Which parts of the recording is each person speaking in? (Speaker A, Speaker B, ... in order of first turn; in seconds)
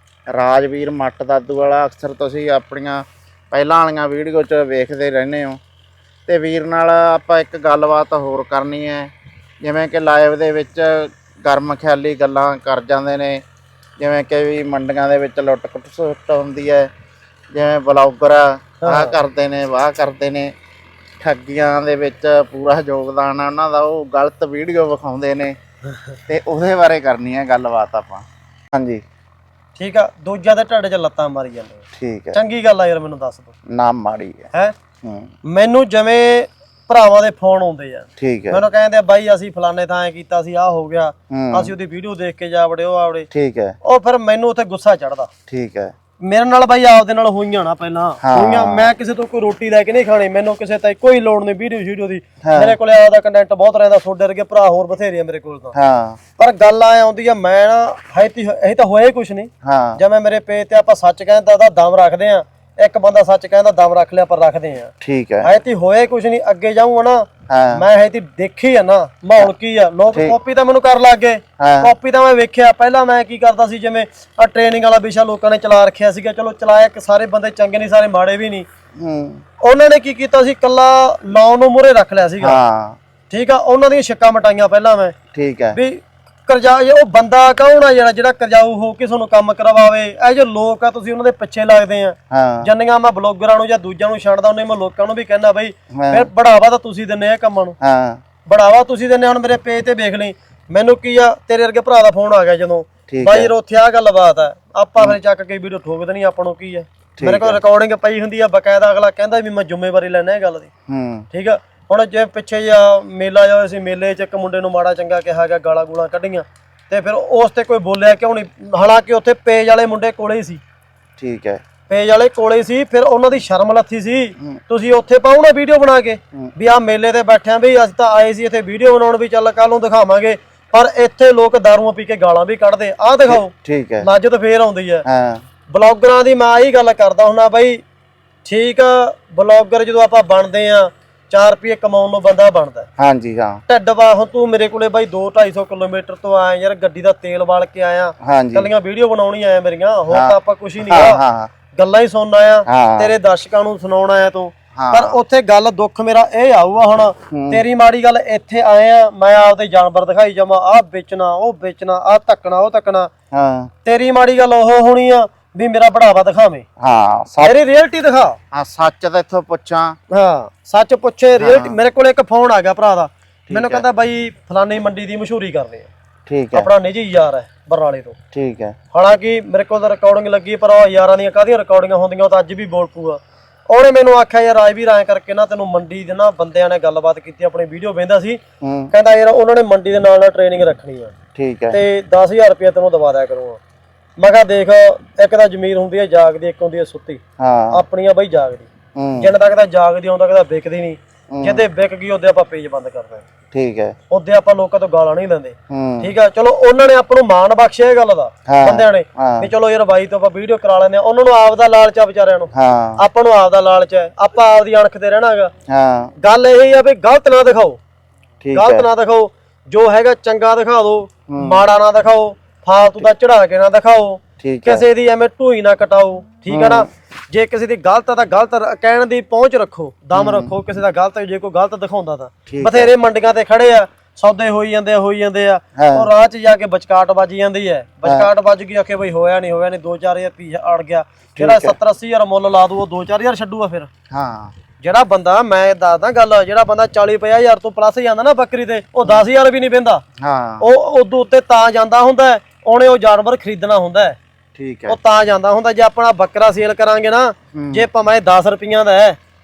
Speaker A: 0.3-5.6, 6.3-9.1, 9.6-13.4, 14.0-16.9, 17.5-20.5, 21.2-25.6, 26.3-29.0, 31.9-32.4, 33.7-34.5, 35.0-35.3, 38.2-38.6, 41.3-41.7, 43.3-43.7, 45.5-45.9, 48.2-48.9, 52.4-52.7, 55.7-56.2, 59.6-60.0, 65.0-65.5, 67.5-67.8, 71.6-71.9, 79.0-79.4, 82.4-83.0, 85.3-85.8, 92.3-92.7, 95.9-96.3, 97.8-98.2, 103.1-103.5, 107.2-107.6, 110.9-111.2, 121.2-121.6, 133.3-134.1, 135.1-135.4, 143.0-143.6, 148.2-148.7, 150.1-151.5, 152.7-153.1, 154.8-155.2, 157.3-157.6, 163.3-163.7, 166.8-167.5, 168.5-170.0, 171.4-171.8, 173.5-173.8, 176.3-176.7, 178.3-178.8, 188.6-188.9, 191.3-191.8, 197.4-197.8, 198.9-199.3, 201.3-201.6, 203.5-203.9, 205.7-206.1, 208.5-209.5, 212.5-213.0, 215.7-216.1, 218.4-218.8, 221.3-221.6, 224.4-224.8, 226.5-226.9, 230.1-230.5, 232.5-232.9, 235.8-236.1, 241.3-241.7, 244.1-244.5, 250.2-250.6, 254.6-255.0, 257.5-257.8
Speaker B: 18.8-19.1, 29.8-33.5, 35.4-43.3, 43.8-45.3, 46.2-55.7, 56.4-78.7, 79.6-82.6, 83.3-85.1, 85.7-97.8, 98.5-110.7, 111.3-120.6, 121.9-135.0, 135.7-137.8, 138.4-142.9, 143.7-151.2, 151.7-163.1, 163.8-166.6, 167.4-168.4, 170.1-175.9, 176.5-178.2, 178.9-188.4, 188.9-191.1, 191.7-193.6, 194.2-197.2, 197.7-198.7, 199.2-203.2, 204.1-215.5, 216.2-217.8, 218.5-243.9, 244.8-250.0, 250.6-254.2, 254.9-259.2